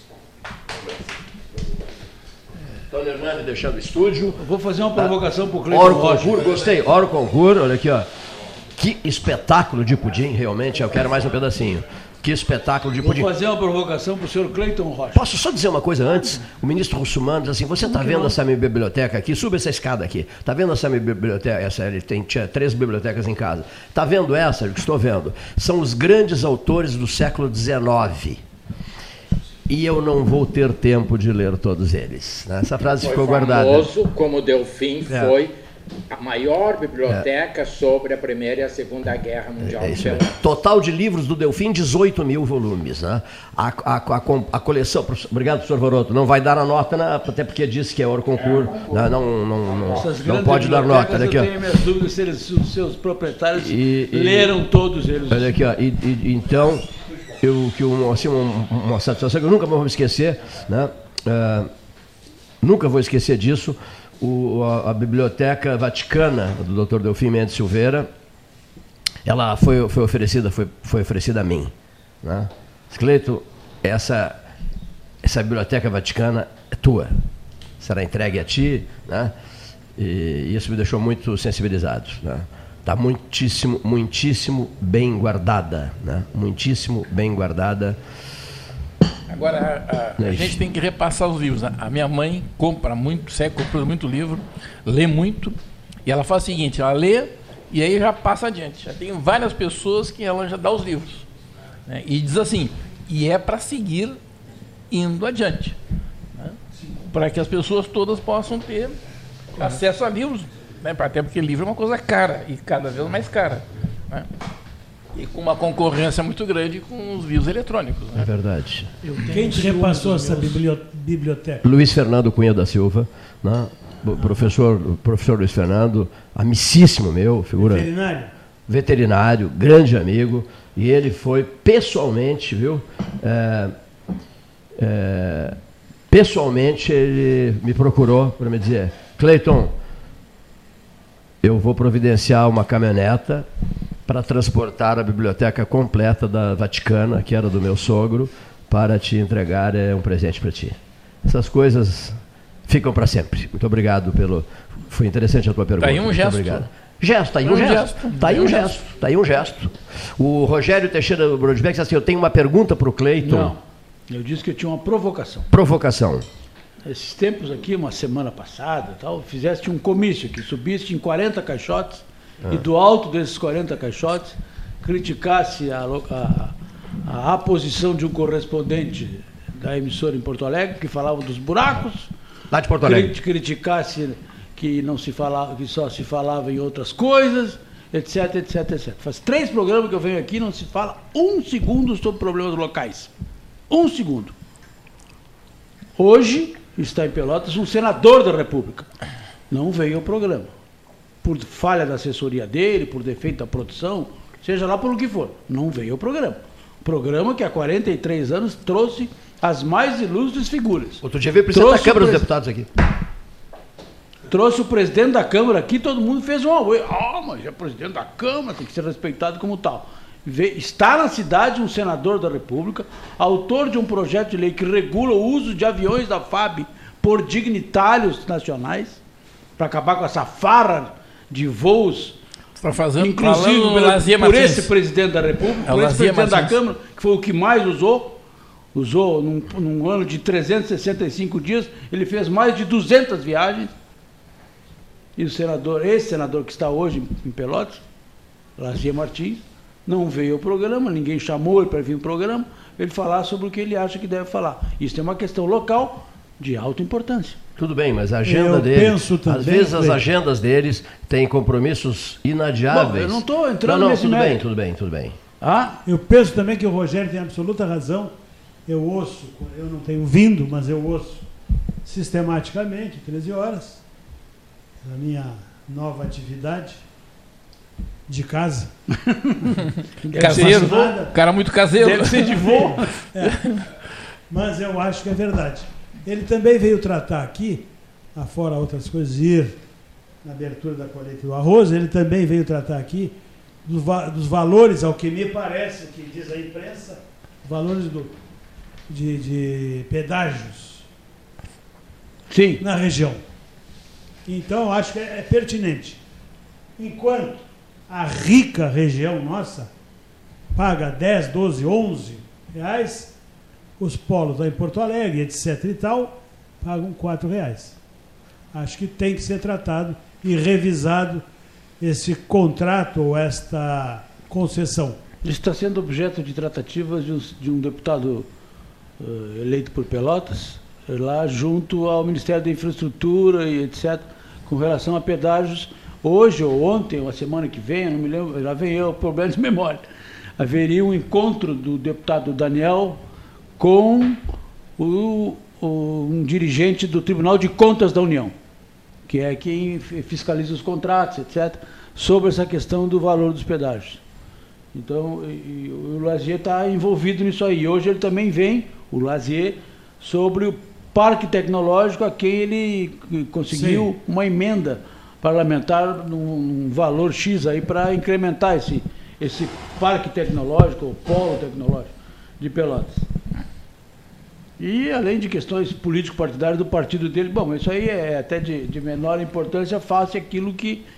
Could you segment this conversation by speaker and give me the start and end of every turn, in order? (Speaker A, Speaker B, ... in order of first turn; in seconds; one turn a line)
Speaker A: 2.9-4.4
Speaker B: 4.4-6.5
Speaker A: 5.7-8.1
Speaker A: 8.8-13.3
Speaker B: 13.0-15.3
Speaker A: 15.1-28.4
Speaker B: 17.8-18.4
Speaker A: 29.7-33.9
Speaker C: 33.0-35.5
Speaker A: 35.1-35.3
Speaker C: 36.1-40.3
Speaker A: 39.6-51.5
Speaker C: 48.3-50.1
Speaker B: 49.9-55.5
Speaker A: 53.5-54.5
Speaker A: 55.3-56.9
Speaker A: 57.4-61.7
Speaker A: 62.6-68.1
Speaker A: 69.3-74.4
Speaker A: 75.2-77.2
Speaker A: 77.8-79.3
Speaker A: 80.0-88.0
Speaker C: 89.3-89.8
Speaker D: 89.6-101.2
Speaker A: 90.2-90.6
Speaker D: 101.9-104.2
Speaker D: 104.9-105.8
Speaker D: 106.3-109.0
Speaker D: 109.5-114.3
Speaker D: 115.1-118.3
Speaker A: 118.1-118.9
Speaker B: 119.0-120.6
Speaker E: 119.3-121.7
Speaker A: 121.6-127.9
Speaker E: 127.6-128.3
Speaker A: 128.7-133.7
Speaker A: 134.8-135.6
Speaker A: 136.1-139.7
Speaker A: 141.4-143.5
Speaker A: 144.1-163.6
Speaker D: 155.8-156.7
Speaker D: 157.4-158.8
Speaker B: 163.2-165.5
Speaker A: 165.5-166.3
Speaker B: 166.8-182.1
Speaker A: 182.5-183.1
Speaker B: 182.8-193.1
Speaker B: 193.7-194.3
Speaker B: 196.0-198.9
Speaker B: 199.5-200.5
Speaker B: 201.2-212.3
Speaker A: 211.0-212.7
Speaker B: 214.3-229.0
Speaker B: 229.6-232.2
Speaker D: 232.6-234.7
Speaker B: 233.0-238.2
Speaker D: 235.6-236.6
Speaker B: 238.7-243.7
Speaker B: 245.2-247.8
Speaker B: 248.6-257.4
Speaker A: 257.6-265.2
Speaker E: 258.2-260.1
Speaker B: 262.7-264.4
Speaker B: 265.4-265.8
Speaker E: 265.9-268.1
Speaker E: 268.7-271.2
Speaker E: 271.8-273.8
Speaker E: 274.8-276.8
Speaker E: 278.1-278.7
Speaker B: 280.1-281.1
Speaker E: 280.1-281.1
Speaker D: 280.1-282.6
Speaker B: 281.8-282.9
Speaker E: 282.3-283.5
Speaker D: 283.2-283.6
Speaker E: 284.3-289.6
Speaker E: 290.2-298.1
Speaker E: 298.9-300.8
Speaker B: 302.3-302.6
Speaker E: 302.6-303.2
Speaker E: 304.3-306.0
Speaker E: 306.8-309.7
Speaker E: 310.6-313.1
Speaker E: 313.8-317.8
Speaker E: 318.5-321.2
Speaker E: 321.8-325.0
Speaker B: 325.2-328.3
Speaker B: 329.0-339.8
Speaker B: 340.4-343.0
Speaker B: 343.6-344.2
Speaker B: 344.8-348.3
Speaker B: 349.1-354.0
Speaker B: 354.7-373.0
Speaker E: 363.5-363.9
Speaker B: 374.6-380.8